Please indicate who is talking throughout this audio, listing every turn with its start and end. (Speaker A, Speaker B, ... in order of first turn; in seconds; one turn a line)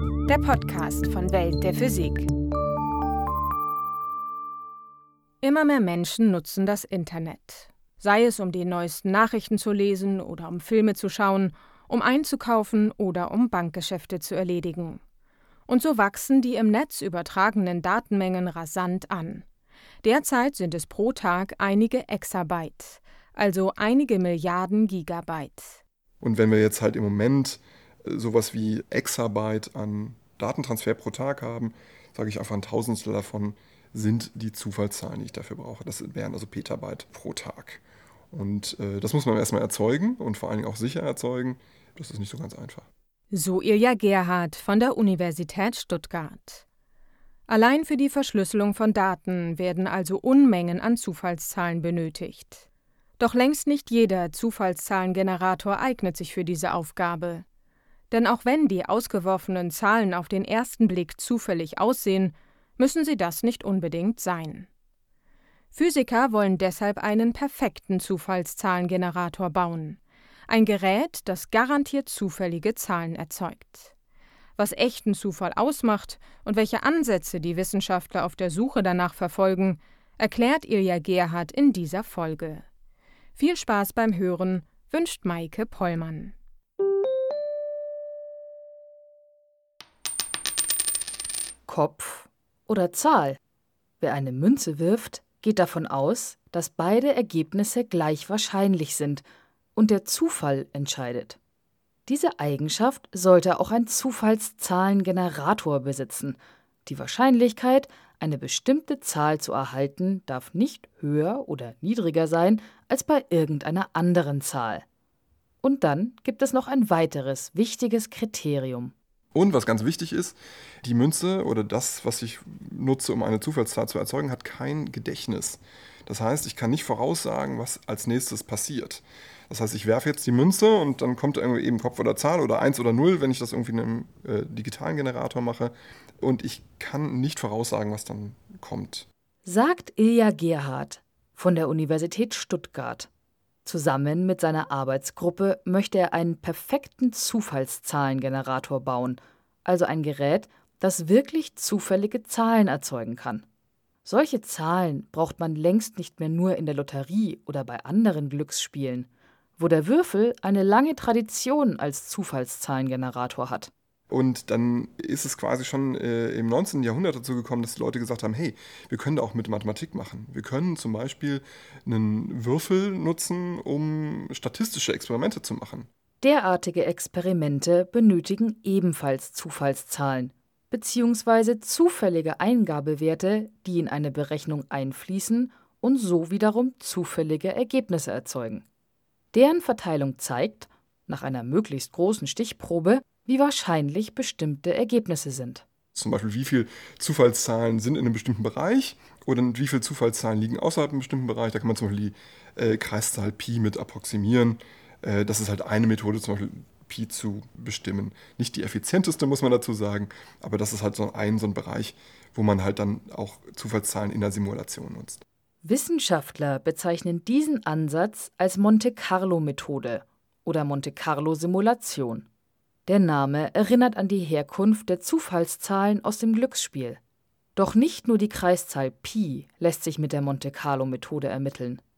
Speaker A: 0.3-2.3
Speaker A: 5.4-15.0
Speaker A: 15.7-19.4
Speaker A: 20.0-25.8
Speaker B: 26.2-42.9
Speaker A: 43.3-46.6
Speaker A: 47.5-52.6
Speaker A: 53.2-57.5
Speaker A: 58.1-64.7
Speaker A: 65.7-73.9
Speaker A: 74.6-82.7
Speaker A: 83.4-86.3
Speaker C: 91.7-93.4
Speaker C: 94.0-101.4
Speaker C: 102.1-114.8
Speaker C: 115.6-118.9
Speaker B: 119.3-139.1
Speaker C: 139.4-143.1
Speaker C: 143.7-153.4
Speaker C: 154.0-163.7
Speaker B: 164.1-175.9
Speaker C: 176.2-188.7
Speaker C: 189.3-195.7
Speaker B: 195.9-215.2
Speaker C: 215.6-222.3
Speaker C: 222.9-227.0
Speaker C: 227.6-231.8